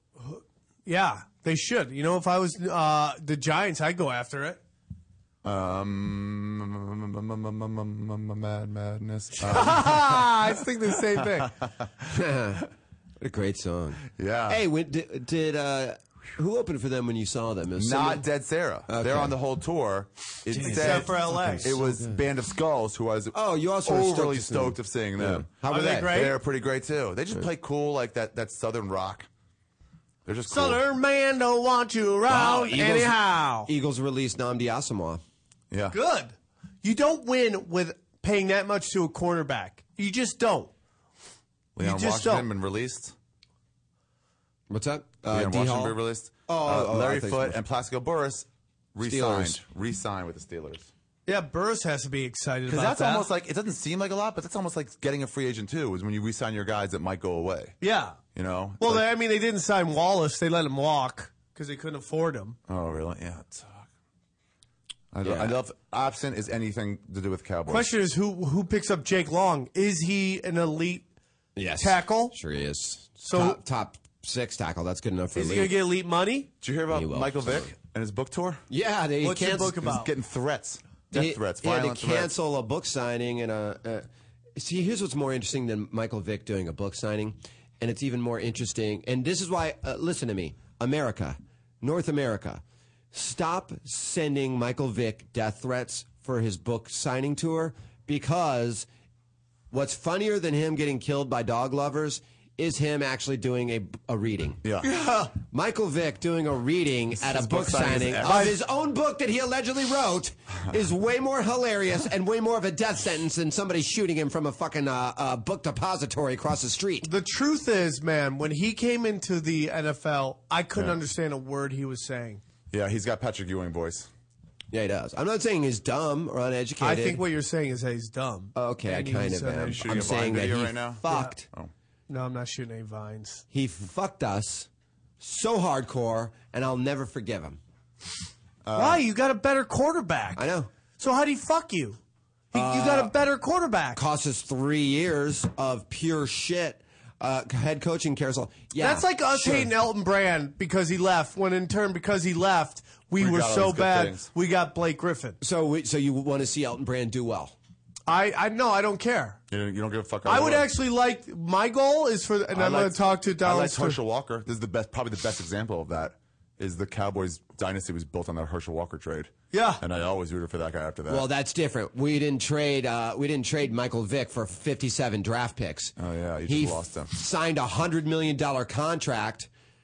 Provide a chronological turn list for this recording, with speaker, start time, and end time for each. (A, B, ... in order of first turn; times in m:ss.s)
0:00.2-0:04.6 A
0:05.4-0:10.5 B
0:09.4-0:11.5 A
0:11.6-0:12.1 B
0:12.1-0:12.6 C
0:13.2-0:18.2 C
0:14.1-0:14.6 B
0:17.8-0:29.3 B
0:18.9-0:19.4 C
0:20.5-0:22.2 C
0:20.6-0:21.7 A
0:23.3-0:26.2 C
0:25.7-0:26.4 A
0:30.2-0:30.8 B
0:30.5-0:33.7 A
0:32.3-0:35.2 C
0:35.9-0:40.7 A
0:41.7-0:43.1 B
0:41.8-0:42.5 A
0:44.7-0:47.6 C
0:45.3-0:50.9 B
0:49.0-0:49.6 C
0:51.3-0:53.2 A
0:52.7-0:57.8 B
0:57.8-0:58.2 A
0:58.3-0:59.0 B
0:58.8-1:02.6 A
1:02.7-1:03.9 B
1:05.1-1:07.9 B
1:05.2-1:05.6 C
1:07.7-1:11.1 A
1:11.6-1:15.8 C
1:11.8-1:12.4 A
1:13.2-1:13.6 A
1:15.3-1:16.5 A
1:16.6-1:18.6 B
1:16.9-1:17.7 C
1:18.7-1:19.9 C
1:19.2-1:20.1 A
1:19.8-1:22.3 B
1:21.1-1:38.9 C
1:39.7-1:44.6 C
1:44.6-1:45.1 B
1:45.4-1:57.1 C
1:47.2-1:48.6 B
1:57.0-2:02.4 A
2:02.7-2:04.1 B
2:04.7-2:07.2 C
2:06.8-2:10.0 A
2:08.5-2:11.4 C
2:09.5-2:11.7 B
2:12.1-2:13.4 A
2:13.5-2:14.7 C
2:15.2-2:17.6 C
2:18.6-2:19.0 B
2:18.7-2:20.4 A
2:20.4-2:20.7 C
2:21.0-2:22.0 A
2:22.5-2:24.0 A
2:22.5-2:23.1 C
2:23.9-2:29.7 C
2:28.8-2:35.4 A
2:33.2-2:34.3 B
2:35.4-2:37.6 C
2:38.1-2:39.4 A
2:39.5-2:40.7 B
2:40.2-2:44.0 A
2:42.5-2:51.3 B
2:49.5-2:49.8 A
2:51.1-2:55.9 C
2:56.0-2:57.1 B
2:56.5-2:59.5 C